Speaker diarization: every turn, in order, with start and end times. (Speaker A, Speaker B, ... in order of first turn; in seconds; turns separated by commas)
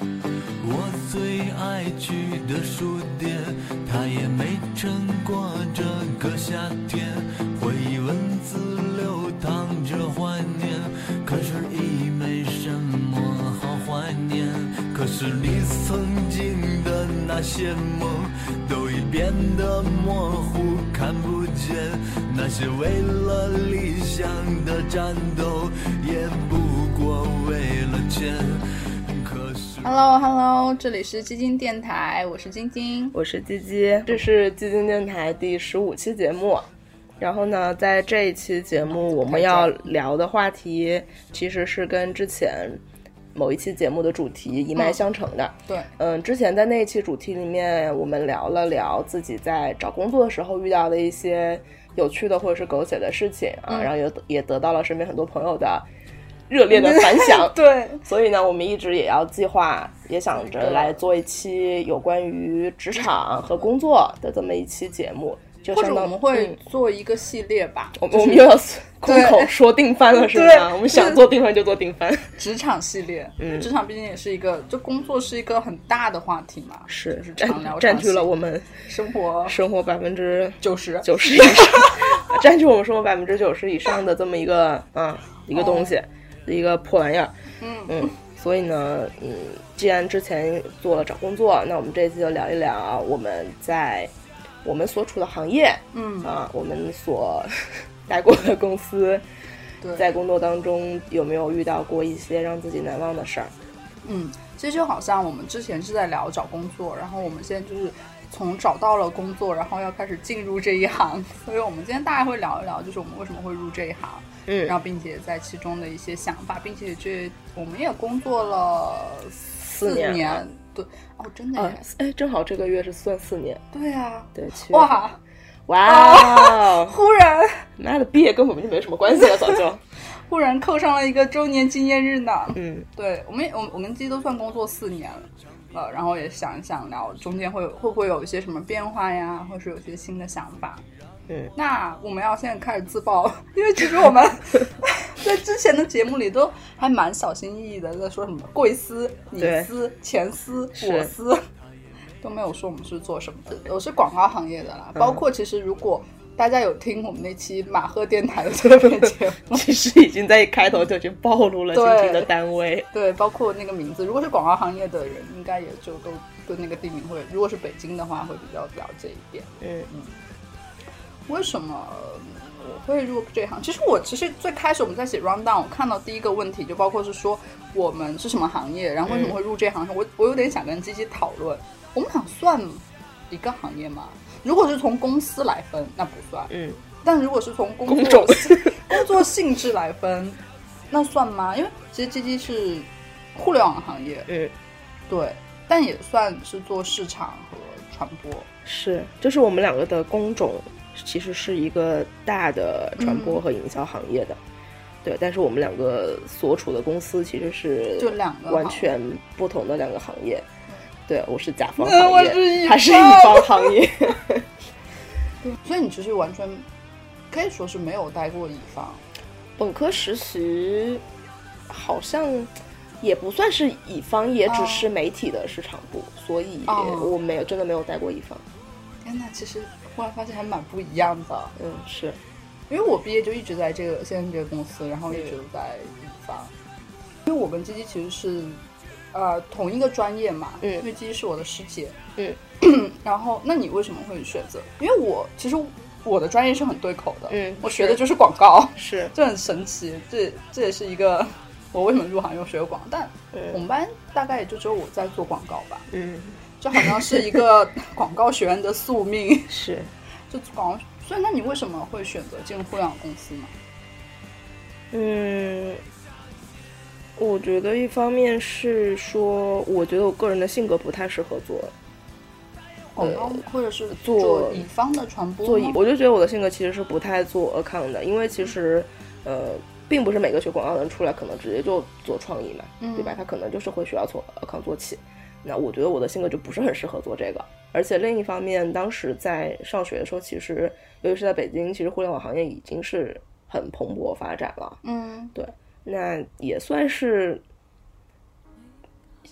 Speaker A: 0.6-30.0, Speaker B: 29.8-33.1, Speaker C: 33.1-36.7, Speaker C: 37.2-42.8, Speaker B: 38.9-39.9, Speaker C: 43.3-55.9, Speaker B: 44.7-45.0, Speaker B: 45.7-45.9, Speaker C: 56.5-66.5, Speaker B: 56.7-58.0, Speaker B: 60.4-60.9, Speaker B: 65.7-69.5, Speaker C: 67.9-72.3, Speaker B: 70.1-71.2, Speaker B: 72.4-78.3, Speaker C: 73.4-73.7, Speaker C: 76.9-78.7, Speaker B: 78.8-79.6, Speaker C: 79.5-87.3, Speaker B: 80.6-82.2, Speaker B: 85.5-85.9, Speaker B: 87.6-88.2, Speaker C: 87.9-94.1, Speaker C: 94.6-99.2, Speaker B: 95.9-96.3, Speaker C: 100.0-103.5, Speaker B: 104.0-121.8, Speaker C: 114.5-114.8, Speaker C: 119.6-120.4, Speaker C: 121.5-123.6, Speaker B: 123.7-125.2, Speaker C: 124.3-125.0, Speaker C: 125.7-127.0, Speaker B: 125.8-127.6, Speaker C: 127.8-129.8, Speaker B: 130.2-140.8, Speaker C: 132.5-132.9, Speaker B: 141.5-151.4, Speaker C: 149.4-149.7, Speaker C: 150.8-151.1, Speaker B: 152.2-159.7, Speaker C: 154.9-155.2, Speaker C: 158.7-162.9, Speaker B: 161.7-162.3, Speaker B: 162.9-170.1, Speaker C: 169.6-169.9, Speaker B: 171.3-186.5, Speaker C: 179.1-179.4, Speaker C: 186.5-186.8, Speaker B: 187.0-190.4, Speaker C: 187.9-189.0, Speaker B: 190.9-194.3, Speaker C: 194.3-194.5, Speaker B: 195.1-198.5, Speaker C: 198.6-204.4, Speaker B: 203.0-203.4, Speaker C: 205.0-210.4, Speaker B: 208.0-208.9, Speaker C: 211.1-214.5, Speaker B: 211.8-213.8, Speaker B: 215.4-216.7, Speaker B: 217.3-219.0, Speaker C: 219.6-221.0, Speaker C: 221.7-228.4, Speaker B: 224.4-224.9, Speaker B: 226.7-227.1, Speaker B: 229.0-231.5, Speaker C: 231.6-232.2, Speaker B: 232.7-236.5, Speaker B: 237.2-238.6, Speaker B: 239.1-242.0, Speaker B: 242.6-255.9, Speaker C: 247.3-248.0, Speaker C: 248.8-249.1, Speaker C: 253.3-253.6, Speaker C: 255.9-257.4, Speaker B: 256.6-259.6, Speaker C: 259.5-259.9, Speaker B: 260.3-263.5, Speaker C: 264.9-265.8, Speaker C: 267.2-271.7, Speaker B: 272.9-275.8, Speaker C: 273.0-273.4, Speaker C: 273.9-274.7, Speaker C: 275.4-294.8, Speaker B: 282.8-283.2, Speaker B: 294.8-295.3, Speaker C: 295.3-297.4